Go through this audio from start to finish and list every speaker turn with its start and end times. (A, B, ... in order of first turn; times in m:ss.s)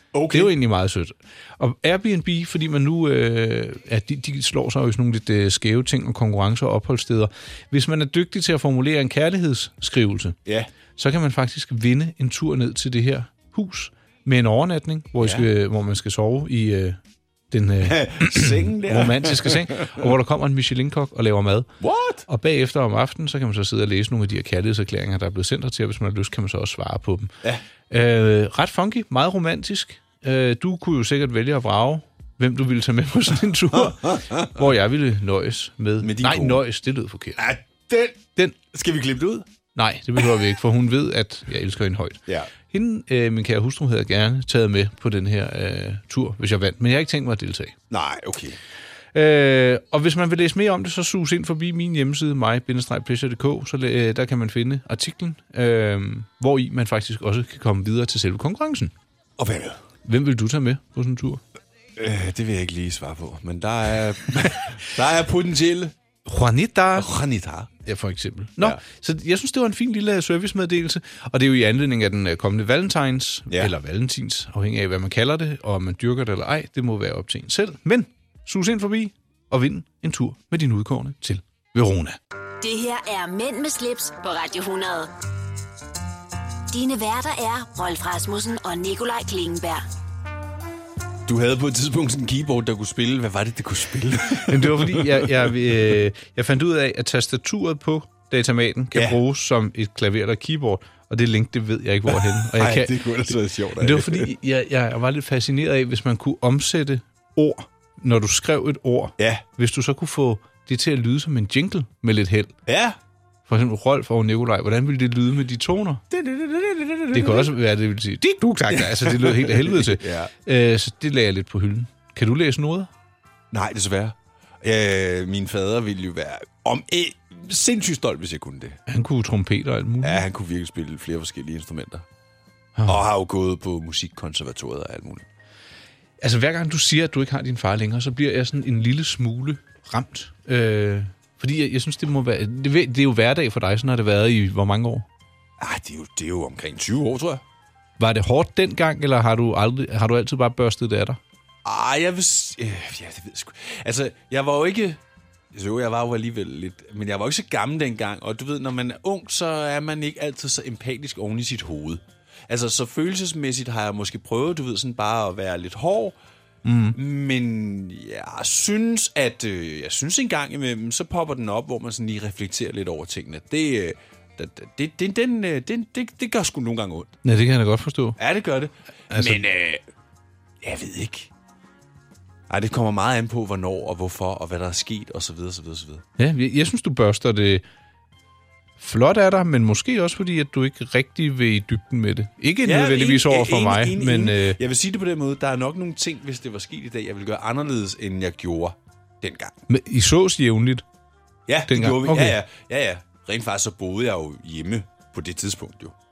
0:00.1-0:00.5 A
0:00.3-0:10.4 B
0:11.0-0:17.0 B
0:15.2-0:15.5 A
0:17.5-0:21.7 B
0:17.8-0:20.0 A
0:21.8-0:22.2 A
0:22.3-0:27.3 B
0:27.9-0:37.4 B
0:33.7-0:34.6 A
0:36.0-0:36.6 A
0:37.4-0:39.5 A
0:39.7-0:47.7 B
0:47.9-0:48.6 A
0:49.1-0:58.9 B
0:59.4-0:59.8 A
1:00.0-1:01.4 B
1:02.0-1:05.9 A
1:06.2-1:07.1 B
1:07.0-1:07.7 A
1:07.8-1:22.2 B
1:22.6-1:25.1 C
1:26.7-1:29.8 C
1:31.2-1:35.5 A
1:34.5-1:52.5 B
1:42.1-1:44.3 A
1:49.2-1:49.4 A
1:52.6-1:53.0 A
1:53.5-1:56.0 B
1:56.1-1:57.5 A
1:57.1-2:02.9 B
1:58.7-2:00.3 A
2:03.5-2:08.8 A
2:08.9-2:10.2 B
2:10.0-2:12.0 A
2:12.8-2:15.2 A
2:16.2-2:25.0 B
2:25.6-2:27.4 A
2:28.0-2:31.2 B
2:31.6-2:35.0 A
2:35.5-2:46.2 A
2:46.6-2:47.0 B
2:46.9-2:57.2 A
2:57.2-2:58.2 B
2:58.2-2:59.8 A
2:59.1-2:59.4 B
3:00.6-3:01.3 A
3:02.5-3:06.0 A
3:06.2-3:07.6 B
3:08.8-3:14.6 B
3:12.6-3:19.5 A
3:19.7-3:20.8 B
3:21.5-3:25.9 A
3:21.7-3:22.4 B